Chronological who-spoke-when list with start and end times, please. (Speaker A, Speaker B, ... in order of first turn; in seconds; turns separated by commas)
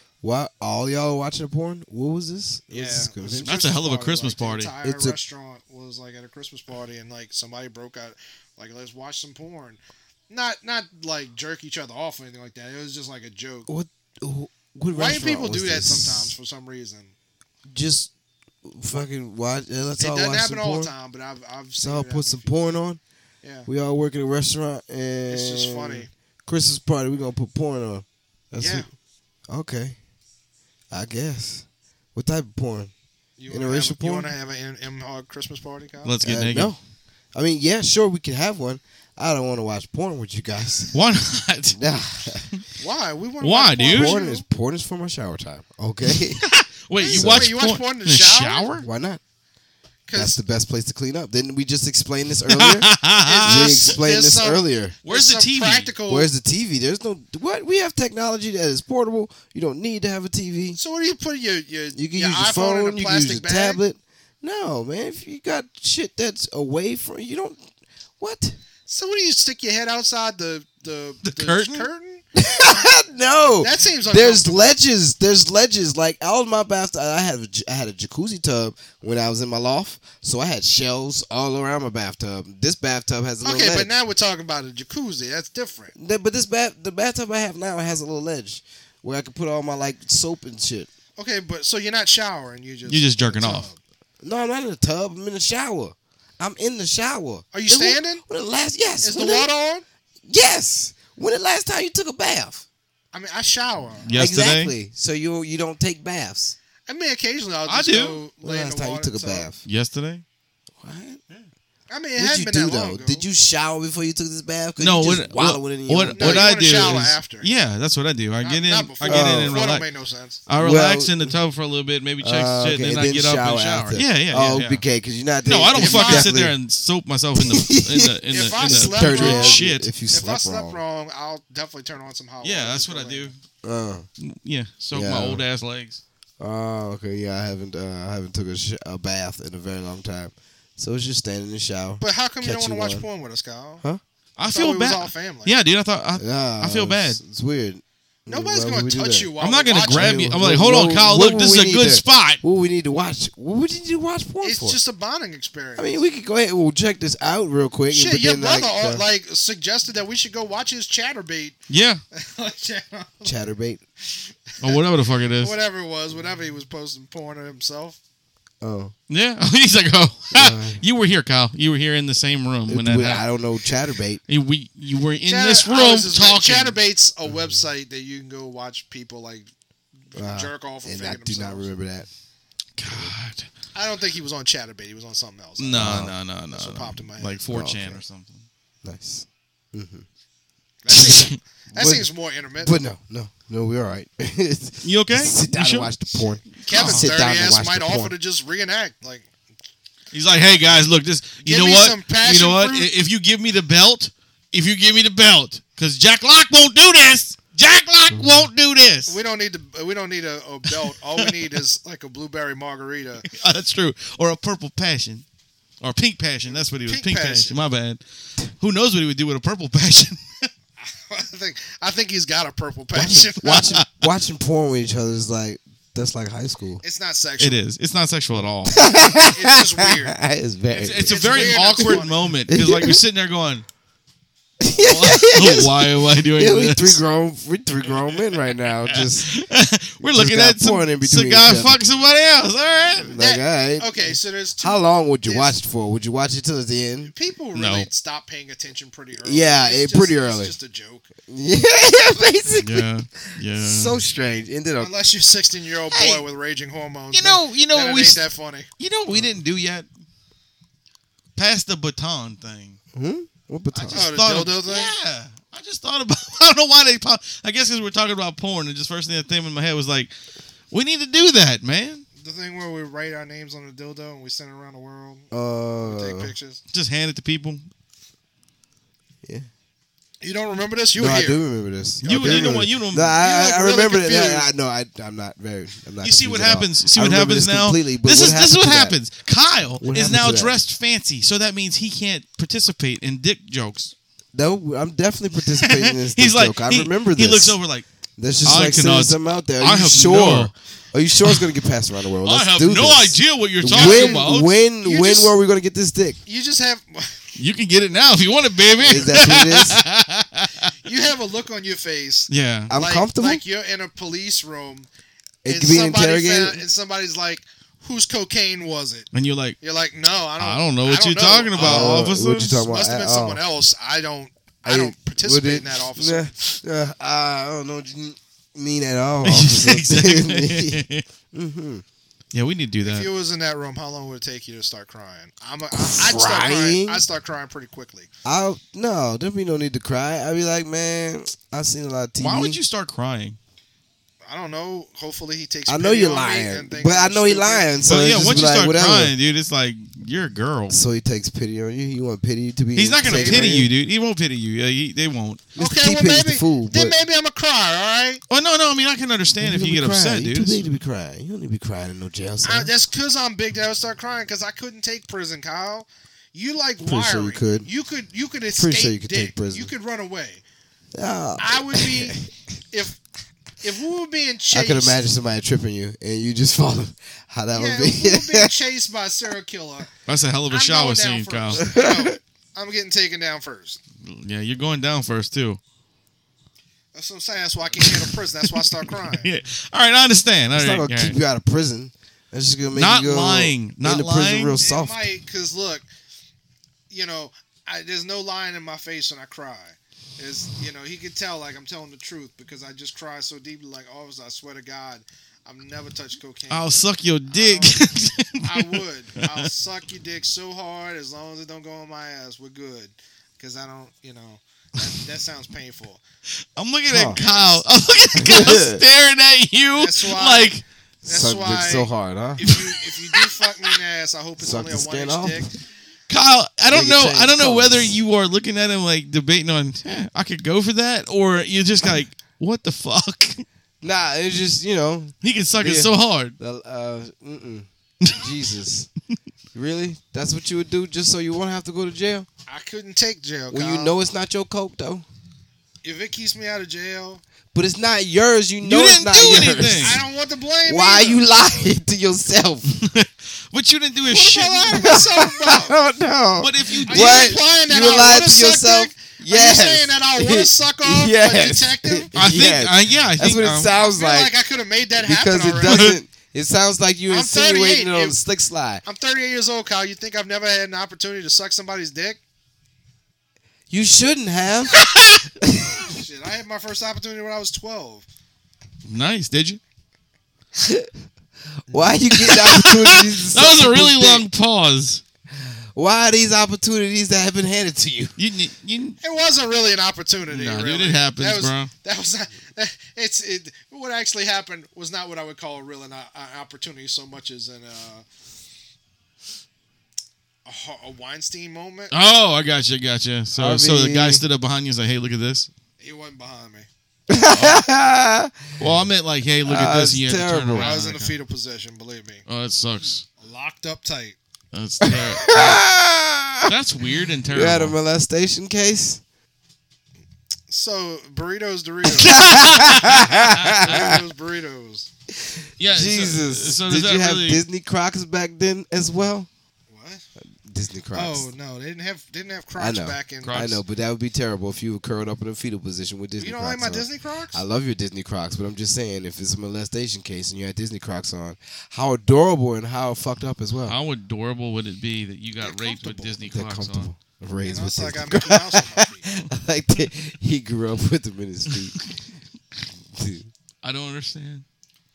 Speaker A: 0.2-3.5, Speaker B: 2.7-13.7, Speaker C: 3.4-4.7, Speaker A: 4.8-5.2, Speaker A: 13.7-16.4, Speaker B: 14.9-17.1, Speaker A: 17.7-18.1, Speaker A: 18.6-20.9, Speaker B: 20.0-22.5, Speaker A: 21.8-23.0, Speaker B: 23.4-23.7, Speaker A: 23.7-28.9, Speaker B: 25.3-26.1, Speaker B: 28.6-28.9, Speaker A: 29.5-30.0, Speaker A: 30.9-32.9, Speaker B: 33.4-36.2, Speaker A: 33.5-34.3, Speaker C: 36.0-36.8, Speaker A: 36.2-36.8, Speaker A: 37.3-41.0, Speaker C: 40.9-41.8, Speaker A: 41.8-42.5, Speaker B: 42.8-44.5, Speaker C: 43.4-44.2, Speaker A: 43.9-46.5, Speaker C: 46.4-48.9, Speaker B: 47.0-48.7, Speaker A: 47.1-47.5, Speaker A: 48.8-49.2, Speaker B: 50.1-50.4, Speaker A: 50.1-55.0, Speaker C: 52.5-53.9, Speaker B: 53.2-56.3, Speaker C: 55.0-55.9, Speaker A: 56.1-60.8, Speaker B: 60.8-63.8, Speaker A: 62.0-67.6, Speaker A: 68.2-68.6, Speaker B: 68.9-72.2, Speaker C: 71.2-71.9, Speaker A: 72.3-83.9, Speaker B: 73.6-74.8, Speaker B: 83.4-85.9, Speaker A: 86.0-90.9, Speaker B: 91.2-93.8, Speaker C: 92.9-93.7, Speaker A: 94.2-99.5, Speaker B: 97.5-98.2, Speaker B: 99.0-99.8, Speaker A: 100.3-102.6, Speaker B: 103.1-104.1, Speaker C: 104.0-104.7, Speaker A: 104.1-106.6, Speaker B: 106.9-109.5, Speaker C: 107.7-108.2, Speaker A: 108.4-109.6, Speaker C: 109.6-110.2, Speaker A: 110.8-111.2, Speaker B: 111.9-113.3, Speaker A: 112.2-116.5, Speaker C: 114.8-119.9, Speaker B: 116.1-117.5, Speaker B: 118.4-120.4, Speaker A: 119.0-119.6, Speaker C: 120.5-124.8, Speaker A: 120.6-121.4, Speaker A: 122.2-126.6, Speaker C: 125.4-129.9, Speaker B: 125.8-126.3, Speaker A: 127.4-130.8, Speaker B: 128.3-133.3, Speaker C: 132.4-133.4, Speaker A: 133.6-134.1, Speaker C: 134.2-136.0, Speaker A: 134.9-135.4, Speaker A: 136.4-143.1, Speaker B: 142.0-143.8, Speaker C: 144.4-147.2, Speaker B: 144.4-145.5, Speaker A: 146.2-149.3, Speaker B: 148.3-150.3, Speaker C: 149.4-152.4, Speaker A: 149.9-154.8, Speaker B: 154.4-156.0, Speaker A: 155.8-159.0, Speaker B: 157.9-161.6, Speaker C: 161.7-162.0, Speaker B: 162.1-163.3, Speaker A: 163.2-163.8, Speaker B: 164.1-164.8, Speaker C: 164.6-165.6, Speaker B: 165.4-168.0, Speaker A: 168.6-168.9, Speaker C: 169.1-173.2, Speaker A: 170.3-170.8, Speaker A: 172.7-174.2, Speaker C: 174.3-176.8, Speaker B: 175.3-179.5, Speaker B: 180.1-181.7, Speaker A: 180.1-182.1, Speaker C: 182.8-183.5, Speaker A: 182.8-183.1, Speaker B: 183.8-187.4, Speaker C: 185.6-188.4, Speaker A: 185.7-186.2, Speaker A: 187.5-188.0, Speaker A: 188.8-190.1, Speaker B: 190.8-192.8, Speaker C: 190.9-191.4, Speaker A: 191.7-192.1, Speaker A: 192.6-198.1, Speaker C: 194.8-195.9, Speaker C: 196.6-197.1, Speaker B: 196.7-199.3, Speaker C: 200.1-209.2, Speaker B: 201.4-202.9, Speaker A: 208.1-208.5, Speaker B: 209.1-213.3, Speaker C: 210.7-211.3, Speaker C: 213.2-215.2, Speaker C: 215.8-220.5, Speaker B: 216.5-217.6, Speaker B: 220.8-223.7, Speaker A: 222.9-226.8, Speaker C: 223.4-223.9, Speaker B: 226.8-227.6, Speaker C: 227.4-228.8, Speaker A: 228.7-233.0, Speaker B: 229.0-230.2, Speaker C: 230.7-233.6, Speaker B: 231.0-232.3, Speaker A: 234.6-239.3, Speaker C: 234.8-237.0, Speaker C: 238.9-243.1, Speaker A: 240.0-241.8, Speaker A: 243.0-247.1, Speaker B: 243.2-245.6, Speaker B: 247.1-251.1, Speaker C: 247.6-247.9, Speaker A: 249.2-250.5, Speaker A: 251.3-254.9, Speaker C: 252.6-253.9, Speaker B: 254.8-258.7, Speaker C: 255.9-256.2, Speaker C: 257.1-258.2, Speaker C: 258.8-259.9, Speaker C: 261.4-262.8, Speaker A: 262.9-264.1, Speaker B: 263.7-264.9, Speaker C: 263.9-270.1, Speaker C: 270.7-272.1, Speaker B: 272.2-275.3, Speaker A: 275.3-276.3, Speaker B: 275.8-276.6, Speaker C: 276.7-277.6, Speaker B: 280.2-281.4, Speaker A: 280.9-288.9, Speaker B: 282.0-284.5, Speaker C: 282.0-283.2, Speaker C: 286.0-293.9, Speaker A: 289.8-290.6, Speaker A: 294.3-297.6, Speaker C: 295.6-297.9, Speaker A: 298.2-306.2, Speaker C: 298.4-300.5, Speaker C: 302.2-304.5, Speaker B: 303.7-304.2, Speaker B: 304.8-305.4, Speaker B: 306.3-307.2, Speaker C: 307.4-310.7, Speaker A: 308.8-309.8, Speaker B: 310.8-314.9, Speaker C: 312.3-312.7, Speaker A: 312.7-313.4, Speaker A: 315.4-316.6, Speaker B: 315.4-319.1, Speaker C: 319.1-319.6, Speaker B: 319.6-322.1, Speaker C: 320.4-322.6, Speaker A: 321.6-323.4, Speaker B: 322.7-326.3, Speaker A: 324.6-331.8, Speaker C: 329.2-331.0, Speaker C: 332.3-333.1, Speaker B: 332.8-338.1, Speaker A: 335.7-337.0, Speaker A: 338.2-342.6, Speaker C: 342.2-343.4, Speaker B: 344.3-348.4, Speaker A: 345.7-349.1, Speaker C: 347.9-350.8, Speaker A: 350.7-353.7, Speaker C: 352.8-355.4, Speaker B: 353.0-353.6, Speaker A: 355.6-356.9, Speaker B: 355.6-358.2, Speaker C: 358.3-360.6, Speaker A: 359.4-362.7, Speaker B: 362.4-370.4, Speaker A: 366.8-367.7, Speaker A: 368.6-369.7, Speaker A: 370.9-372.3, Speaker B: 371.4-372.2, Speaker B: 372.7-373.0, Speaker B: 373.6-375.0, Speaker A: 374.5-378.5, Speaker B: 377.5-379.9, Speaker C: 380.1-381.6, Speaker B: 380.5-383.8, Speaker A: 381.6-382.1, Speaker C: 384.0-385.6, Speaker B: 386.9-389.3, Speaker C: 387.8-391.2, Speaker A: 390.5-395.1, Speaker C: 392.8-394.6, Speaker B: 394.6-395.9, Speaker B: 396.9-407.8, Speaker C: 406.5-409.5, Speaker B: 408.4-416.0, Speaker C: 416.6-420.6, Speaker A: 416.9-417.2, Speaker B: 417.1-418.7, Speaker A: 418.2-418.8, Speaker B: 419.8-420.5, Speaker B: 421.0-425.5, Speaker A: 421.1-422.6, Speaker C: 422.5-423.7, Speaker A: 424.4-425.4, Speaker C: 426.1-433.4, Speaker A: 426.7-428.0, Speaker A: 433.8-438.9, Speaker C: 435.2-436.4, Speaker A: 439.5-442.3, Speaker B: 442.5-443.9, Speaker A: 443.5-445.1, Speaker B: 445.8-447.2, Speaker A: 447.5-450.1, Speaker C: 448.6-450.0, Speaker B: 449.6-451.2, Speaker A: 450.6-452.8, Speaker C: 452.7-454.8, Speaker B: 454.0-455.7, Speaker A: 454.7-464.4, Speaker C: 456.4-457.4, Speaker B: 456.9-462.1, Speaker C: 462.1-463.7, Speaker B: 463.7-465.9, Speaker A: 465.0-468.8, Speaker C: 465.6-466.0, Speaker B: 467.1-468.2, Speaker B: 468.9-472.2, Speaker A: 473.7-475.9, Speaker C: 474.8-475.2, Speaker B: 475.9-478.1, Speaker C: 478.9-479.6, Speaker A: 480.6-480.9, Speaker A: 481.7-484.3, Speaker C: 482.1-485.0, Speaker A: 485.3-488.1, Speaker C: 488.2-489.0, Speaker B: 489.0-498.1, Speaker C: 490.3-491.7, Speaker B: 500.4-501.9, Speaker C: 501.9-505.5, Speaker A: 503.4-504.2, Speaker B: 505.8-506.7, Speaker A: 507.1-508.7, Speaker C: 507.2-507.6, Speaker C: 508.6-511.2, Speaker A: 509.4-510.7, Speaker B: 510.6-512.2, Speaker C: 512.3-513.1, Speaker B: 513.2-514.2, Speaker C: 514.5-515.6, Speaker A: 514.8-516.6, Speaker C: 516.5-517.8, Speaker A: 517.3-519.0, Speaker B: 520.5-524.9, Speaker A: 522.0-524.0, Speaker C: 522.1-523.8, Speaker A: 525.1-529.3, Speaker C: 525.6-527.4, Speaker B: 529.7-530.1, Speaker A: 530.4-531.3, Speaker B: 530.9-533.4, Speaker A: 532.6-543.8, Speaker C: 533.2-533.6, Speaker B: 536.2-537.4, Speaker C: 543.7-546.9, Speaker B: 545.4-546.2, Speaker A: 546.2-551.9, Speaker B: 547.4-549.1, Speaker A: 552.9-553.3, Speaker C: 553.6-554.5